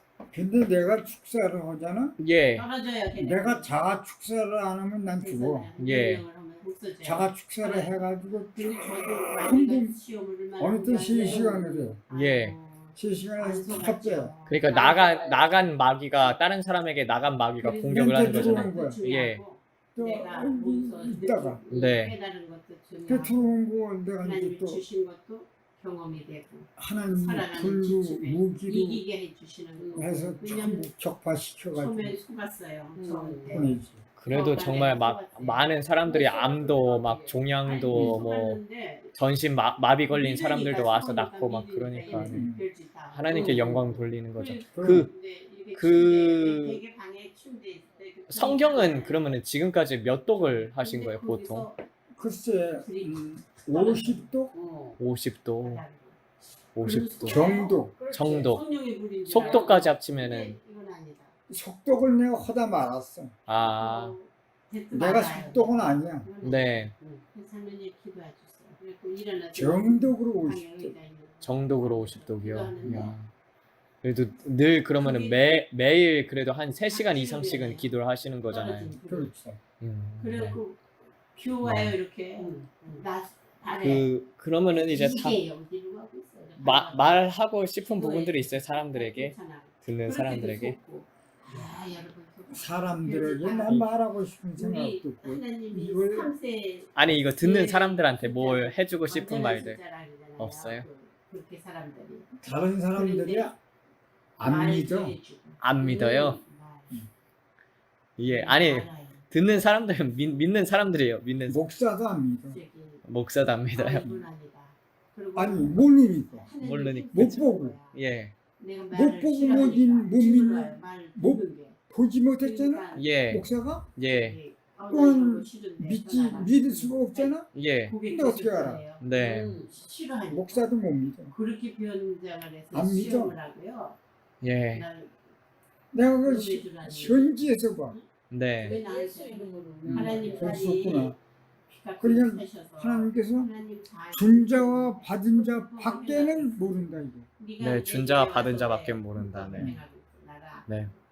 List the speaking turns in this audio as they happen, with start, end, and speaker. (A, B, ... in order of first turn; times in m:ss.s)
0:00.3-0:02.2 A
0:02.2-0:02.6 B
0:02.5-0:03.8 C
0:03.2-0:05.7 A
0:05.2-0:15.3 C
0:05.8-0:06.2 B
0:07.0-0:10.0 A
0:10.6-0:12.0 A
0:12.1-0:12.5 B
0:12.9-0:14.3 A
0:14.5-0:19.4 B
0:14.7-0:15.6 D
0:17.6-0:23.5 C
0:17.9-0:19.0 A
0:19.9-0:21.6 A
0:21.7-0:22.1 B
0:23.1-0:24.8 A
0:24.2-0:30.9 C
0:26.8-0:29.0 A
0:29.8-0:30.3 D
0:29.9-0:32.2 A
0:31.7-0:33.8 C
0:33.0-0:33.7 D
0:33.5-0:34.0 A
0:34.2-0:38.6 B
0:34.3-0:36.0 C
0:36.1-0:37.4 D
0:37.6-0:39.1 C
0:37.9-0:38.2 A
0:39.1-0:42.5 B
0:40.1-0:49.2 C
0:42.2-0:42.6 A
0:43.1-0:45.1 B
0:43.3-0:43.8 D
0:44.7-0:45.1 A
0:45.7-0:46.8 B
0:48.3-0:51.7 B
0:50.4-0:51.8 C
0:52.2-0:54.5 A
0:52.8-0:54.3 C
0:54.5-0:55.0 D
0:55.0-0:55.8 B
0:55.6-0:56.2 C
0:56.7-0:57.4 B
0:56.8-1:01.3 C
0:57.2-0:58.0 A
0:57.8-0:58.5 D
0:58.1-0:58.6 B
0:59.2-1:00.6 B
0:59.3-0:59.8 D
1:01.5-1:03.3 A
1:03.5-1:04.1 B
1:03.7-1:13.1 C
1:04.9-1:06.3 A
1:06.4-1:06.9 B
1:09.5-1:10.9 A
1:11.4-1:13.3 B
1:14.0-1:18.9 B
1:15.0-1:15.6 C
1:16.9-1:17.9 C
1:18.5-1:19.4 C
1:19.1-1:19.6 A
1:19.8-1:20.6 B
1:20.2-1:24.1 C
1:21.6-1:21.9 B
1:22.4-1:23.0 D
1:23.8-1:25.4 B
1:24.7-1:27.3 C
1:26.6-1:30.8 B
1:27.8-1:33.9 C
1:32.5-1:36.3 A
1:34.5-1:42.3 C
1:36.9-1:39.8 B
1:40.4-1:40.8 B
1:42.4-1:43.6 A
1:42.9-1:43.5 C
1:44.4-1:45.2 A
1:44.4-1:47.0 C
1:45.6-1:46.4 B
1:48.2-1:51.6 B
1:48.2-1:49.2 C
1:51.5-1:52.6 A
1:52.5-1:53.0 C
1:53.0-1:54.1 B
1:53.7-1:58.0 C
1:55.3-1:56.5 A
1:56.6-1:58.3 B
1:57.1-1:57.8 A
1:58.6-2:01.8 C
1:58.9-2:03.9 A
2:02.4-2:03.1 C
2:02.9-2:04.4 B
2:04.2-2:10.7 C
2:04.9-2:07.5 A
2:07.5-2:08.0 B
2:08.1-2:08.8 A
2:09.0-2:09.6 B
2:09.2-2:09.7 D
2:10.3-2:11.3 A
2:11.3-2:14.0 C
2:12.7-2:13.3 A
2:14.4-2:14.8 B
2:14.7-2:15.2 C
2:15.9-2:18.0 A
2:16.2-2:17.4 C
2:18.3-2:18.8 B
2:18.6-2:21.2 C
2:18.6-2:20.7 D
2:19.8-2:21.2 A
2:21.7-2:30.9 C
2:22.0-2:23.5 A
2:24.1-2:27.3 A
2:27.6-2:29.7 B
2:29.5-2:29.8 A